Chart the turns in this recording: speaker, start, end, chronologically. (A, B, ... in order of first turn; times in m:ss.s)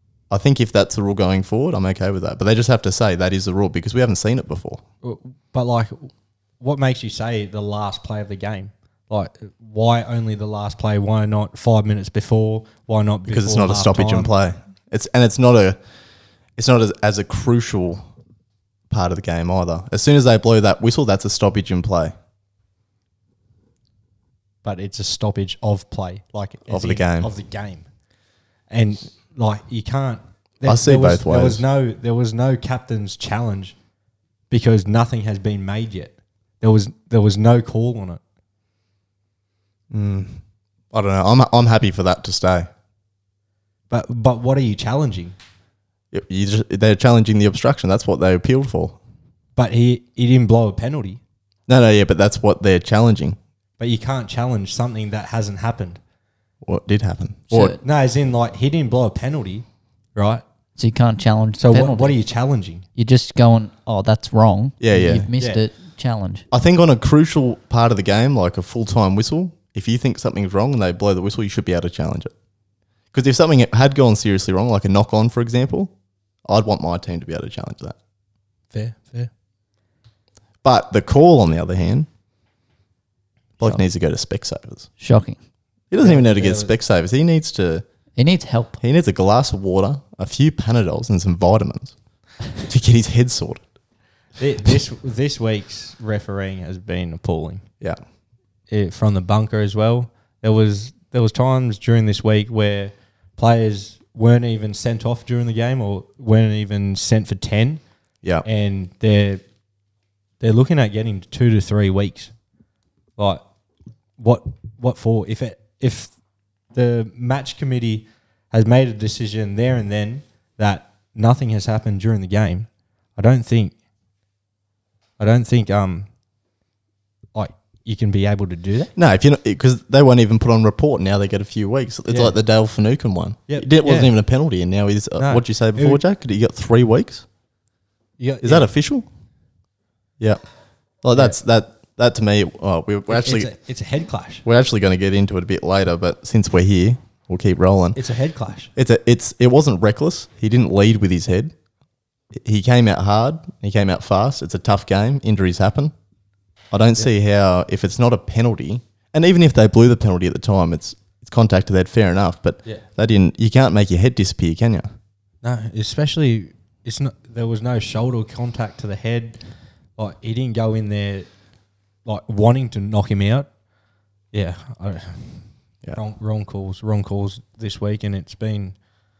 0:00.3-0:04.8 A
0:05.0-0:14.3 B
0:13.3-0:15.8 A
0:16.6-0:18.1 A
0:18.9-0:22.1 A
0:24.6-0:27.9 B
0:26.7-0:27.3 A
0:28.7-0:33.8 B
0:30.6-0:31.6 A
0:34.5-0:38.2 B
0:39.9-0:42.7 A
0:43.9-0:45.4 B
0:46.1-0:49.0 A
0:49.6-0:51.2 B
0:51.7-0:53.4 A
0:53.8-0:56.0 B
0:56.6-0:57.8 A
0:57.5-0:57.8 C
0:57.8-1:00.4 B
1:00.8-1:02.2 C
1:01.6-1:02.8 B
1:03.0-1:06.5 C
1:04.8-1:05.3 A
1:06.5-1:12.3 A
1:13.1-1:15.9 A
1:16.4-1:18.0 A
1:18.7-1:19.3 B
1:20.6-1:22.1 A
1:23.6-1:24.9 A
1:25.0-1:25.4 C
1:25.9-1:27.8 A
1:26.0-1:26.7 B
1:28.2-1:28.8 C
1:28.8-1:32.0 A
1:32.6-1:33.6 A
1:34.4-1:37.6 B
1:38.7-1:47.8 B
1:48.4-1:49.4 B
1:50.4-1:52.3 B
1:53.2-1:53.4 B
1:54.2-1:56.1 B
1:56.7-2:03.8 B
2:05.2-2:06.1 B
2:07.3-2:08.9 B
2:09.0-2:17.2 A
2:12.1-2:12.4 B
2:13.5-2:14.1 B
2:15.2-2:16.0 B
2:18.2-2:18.7 B
2:18.4-2:19.1 A
2:21.0-2:23.5 A
2:23.1-2:24.4 B
2:24.4-2:28.0 A
2:28.0-2:28.7 B
2:28.8-2:31.5 A
2:32.3-2:35.9 A
2:36.7-2:44.9 A
2:45.4-2:49.4 B
2:50.0-2:51.3 B
2:52.0-2:53.5 B
2:54.3-2:58.8 B